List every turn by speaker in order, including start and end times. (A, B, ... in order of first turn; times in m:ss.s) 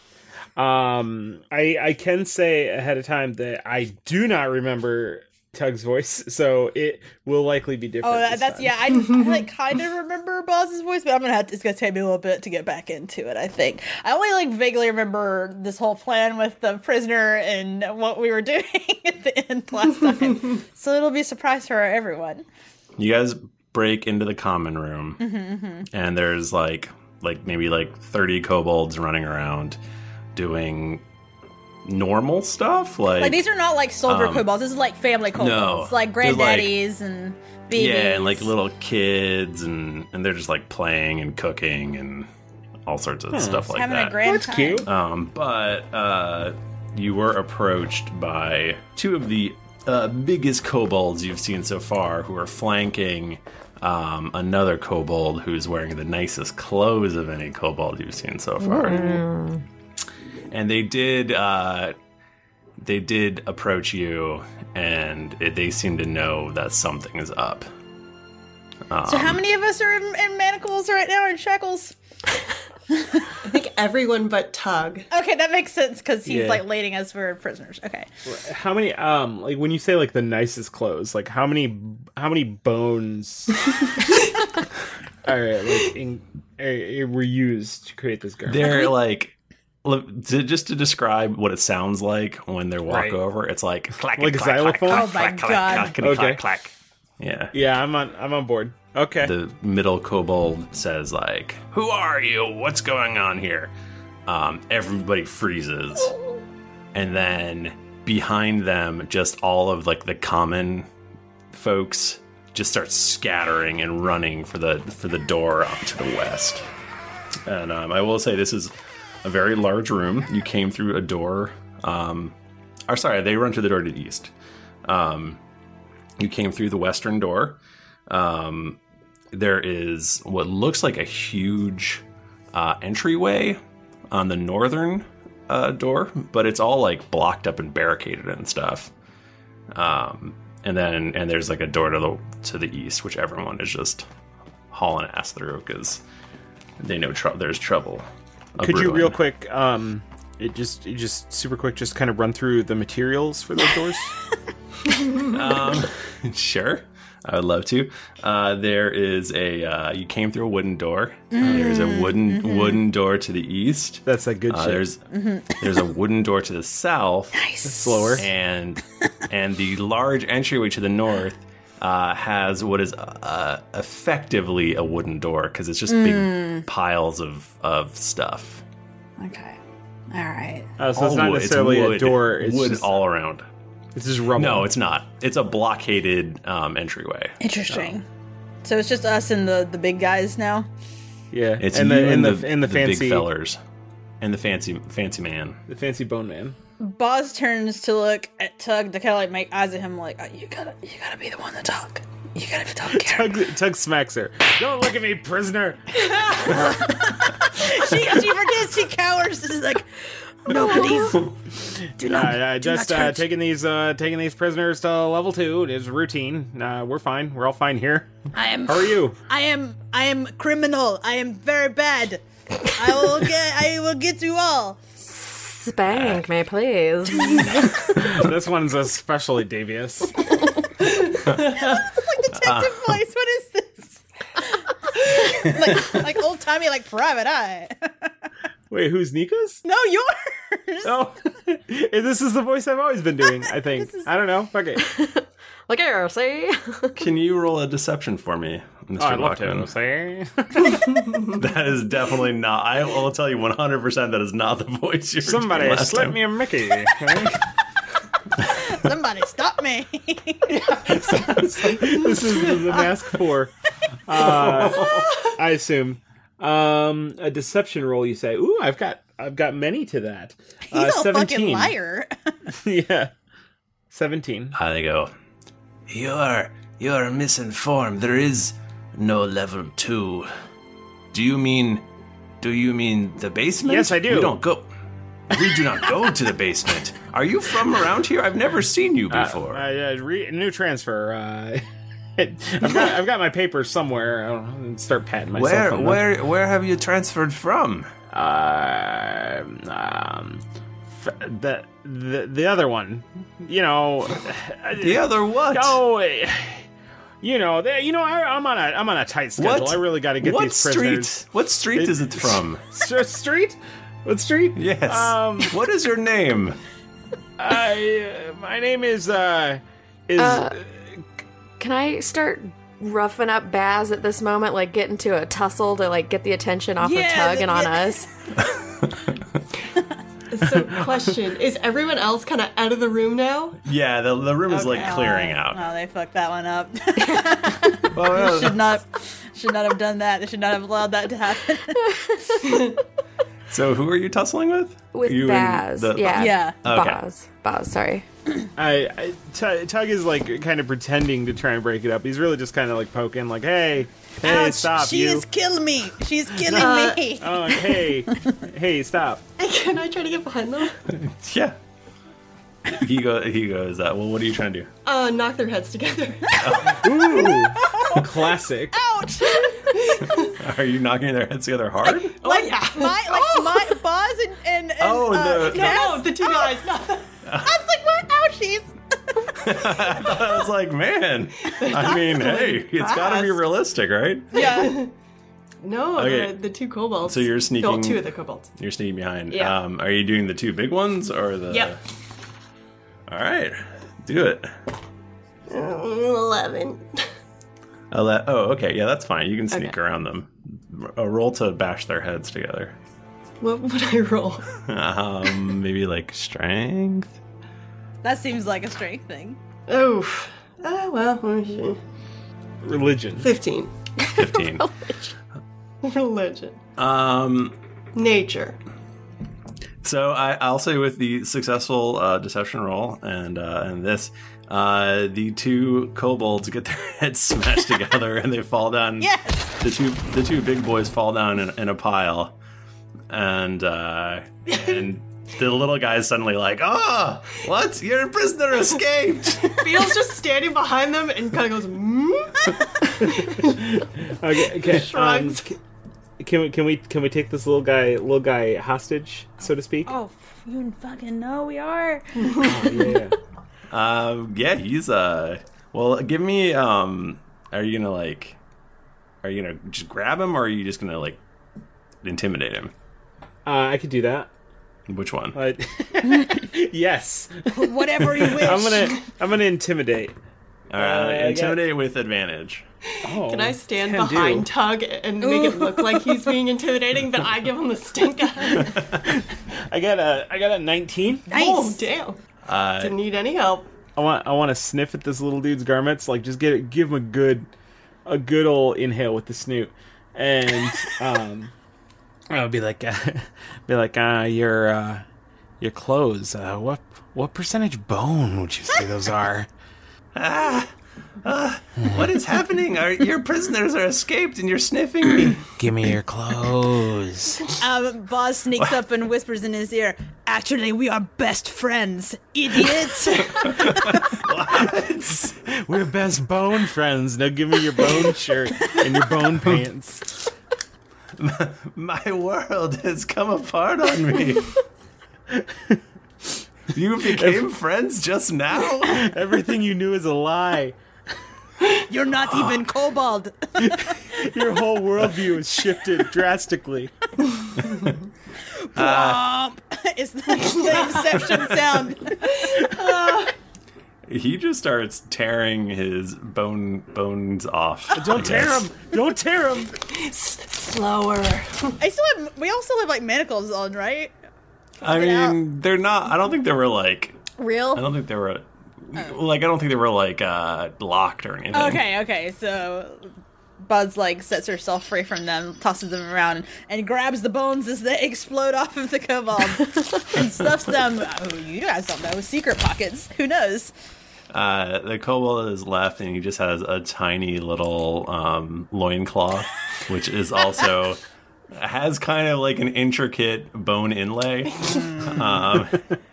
0:00.6-0:08.8 A
0:08.0-0:22.4 B
0:09.0-0:09.4 C
0:23.0-0:25.2 D
0:25.2-0:25.9 B
0:25.9-0:29.8 D
0:30.4-0:31.0 D
0:31.8-0:33.4 D
0:33.2-0:38.5 B
0:34.0-0:34.5 D
0:35.4-0:36.8 D
0:37.7-0:42.3 D
0:42.9-0:44.2 D
0:43.3-0:44.9 A
0:43.7-0:44.9 B
0:44.8-0:59.2 D
0:58.6-0:59.6 E
1:00.5-1:02.0 D
1:02.8-1:07.7 D
1:08.9-1:09.4 D
1:09.1-1:12.0 B
1:12.9-1:13.2 B
1:13.4-1:15.1 C
1:15.1-1:18.1 B
1:16.3-1:16.6 A
1:18.3-1:23.6 A
1:25.3-1:28.8 A
1:28.5-1:37.5 D
1:32.9-1:33.2 A
1:34.2-1:35.2 A
1:34.9-1:36.0 B
1:36.0-1:36.4 A
1:37.5-1:39.3 A
1:39.2-1:43.7 D
1:44.3-1:46.1 D
1:46.9-1:50.9 D
1:51.5-1:56.6 D
1:57.5-1:58.7 D
1:59.2-2:02.3 D
2:02.9-2:04.3 D
2:04.8-2:05.4 D
2:06.2-2:08.8 D
2:09.3-2:13.6 D
2:14.1-2:18.9 D
2:19.7-2:24.0 D
2:24.7-2:26.0 D
2:26.8-2:28.1 D
2:28.6-2:29.2 D
2:28.6-2:34.1 A
2:35.3-2:45.0 D
2:41.3-2:42.8 B
2:44.0-2:44.8 A
2:45.1-2:45.6 B
2:45.5-2:47.4 D
2:47.4-2:48.2 B
2:47.6-2:48.3 A
2:48.2-2:58.6 D
2:55.9-2:56.7 B
2:59.2-2:59.6 B
3:00.1-3:00.7 B
3:00.8-3:02.9 A
3:01.0-3:03.4 D
3:04.0-3:04.7 A
3:04.4-3:07.8 D
3:07.4-3:08.0 B
3:08.6-3:10.7 B
3:11.3-3:13.3 A
3:11.6-3:13.6 D
3:14.2-3:15.6 D
3:15.7-3:16.6 A
3:16.8-3:23.4 B
3:22.9-3:26.0 A
3:26.1-3:29.9 B
3:30.4-3:31.4 B
3:30.6-3:31.0 E
3:32.0-3:33.3 B
3:32.0-3:38.1 A
3:38.3-3:42.2 B
3:38.7-3:39.2 A
3:42.8-3:44.8 B
3:45.1-3:47.8 E
3:45.9-3:46.2 D
3:47.9-3:50.2 A
3:51.5-3:58.1 B
3:52.4-3:53.0 D
3:58.7-3:59.6 A
3:59.6-4:00.9 B
4:00.8-4:04.8 A
4:03.7-4:04.1 B
4:04.8-4:07.0 E
4:07.0-4:09.7 D
4:09.0-4:10.7 A
4:11.3-4:16.2 D
4:15.2-4:17.4 A
4:18.5-4:20.5 B
4:20.5-4:23.5 A
4:24.1-4:31.8 A
4:24.2-4:25.1 D
4:30.7-4:32.1 B
4:32.5-4:33.1 A
4:33.9-4:34.6 A
4:34.6-4:35.1 D
4:35.9-4:40.3 D
4:41.1-4:41.8 D
4:42.4-4:44.7 D
4:43.6-4:44.4 A
4:45.3-4:49.6 D
4:49.1-4:51.6 A
4:52.2-4:56.0 A
4:55.4-4:57.9 D
4:58.1-5:00.4 A
5:01.0-5:06.6 A
5:04.8-5:05.8 D
5:07.2-5:11.2 A
5:09.4-5:12.6 D
5:11.8-5:15.5 A
5:14.6-5:16.6 D
5:17.4-5:21.1 A
5:20.2-5:20.6 E
5:21.6-5:28.1 E
5:26.8-5:28.0 B
5:30.3-5:33.6 C
5:33.6-5:35.6 D
5:34.5-5:41.8 B
5:37.0-5:37.3 E
5:37.9-5:38.7 D
5:41.8-5:42.3 E
5:43.5-5:47.0 D
5:44.9-5:48.0 E
5:46.1-5:46.6 B
5:48.6-5:55.2 A
5:54.2-5:57.7 B
5:56.4-5:59.2 A
5:56.6-5:57.1 C
5:59.4-6:00.8 C
6:00.9-6:01.6 D
6:02.7-6:04.7 D
6:04.8-6:06.3 C
6:06.4-6:07.1 D
6:06.7-6:08.8 A
6:07.2-6:08.0 B
6:08.7-6:10.0 B
6:10.4-6:12.2 D
6:12.2-6:13.6 C
6:12.2-6:16.7 B
6:14.8-6:15.8 D
6:15.4-6:17.1 C
6:17.2-6:17.5 D
6:17.4-6:20.2 B
6:19.4-6:24.4 D
6:21.6-6:23.4 C
6:24.3-6:24.8 B
6:24.3-6:24.9 C
6:25.6-6:28.5 C
6:26.0-6:26.4 D
6:27.0-6:31.8 D
6:29.3-6:29.6 C
6:33.1-6:34.5 D
6:35.5-6:37.0 C
6:37.9-6:42.8 D
6:43.4-6:44.4 C
6:44.7-6:47.2 D
6:48.0-6:49.4 B
6:49.7-6:51.8 C
6:52.6-6:53.3 A
6:53.2-6:53.7 C
6:54.0-6:55.1 E
6:54.2-6:54.7 D
6:55.8-6:56.6 C
6:56.8-6:57.6 D
6:58.0-6:58.6 C
6:59.8-7:12.4 D
7:09.0-7:09.5 B
7:13.1-7:19.6 D
7:19.6-7:22.4 C
7:23.0-7:25.6 A
7:23.2-7:23.5 C
7:24.5-7:25.5 C
7:26.2-7:29.9 A
7:29.9-7:32.2 B
7:32.4-7:33.2 A
7:33.7-7:38.4 D
7:39.2-7:41.2 D
7:42.0-7:42.7 D
7:43.5-7:44.3 A
7:44.9-7:45.4 D
7:45.4-7:50.1 A
7:47.5-7:48.9 B
7:50.7-7:52.6 D
7:50.8-7:51.6 A
7:53.0-7:54.5 A
7:53.1-7:58.7 C
7:55.2-7:56.3 B
7:59.1-8:01.3 A
8:01.3-8:02.2 C
8:01.3-8:01.9 B
8:02.5-8:03.0 D
8:02.8-8:03.7 C
8:04.0-8:07.5 A
8:08.1-8:11.5 A
8:12.3-8:15.0 A
8:15.6-8:19.5 A
8:20.1-8:20.7 D
8:21.2-8:25.4 D
8:25.6-8:27.4 A
8:27.6-8:34.2 B
8:33.4-8:35.4 D
8:35.5-8:40.1 A
8:41.2-8:44.6 D
8:45.4-8:45.8 A
8:46.7-8:49.0 D
8:47.2-8:47.4 A
8:48.8-8:50.8 A
8:51.9-8:54.0 B
8:52.3-8:52.6 D
8:53.6-8:56.9 A
8:58.8-9:02.5 B
8:58.8-8:59.2 D
9:02.5-9:03.3 C
9:04.1-9:08.7 D
9:07.9-9:09.8 A
9:09.9-9:11.8 C
9:11.8-9:14.1 B
9:14.8-9:21.8 D
9:14.8-9:15.4 B
9:17.4-9:17.8 B
9:21.5-9:23.1 B
9:23.6-9:33.7 B
9:34.3-9:41.0 D
9:41.5-9:45.8 D
9:44.8-9:45.2 B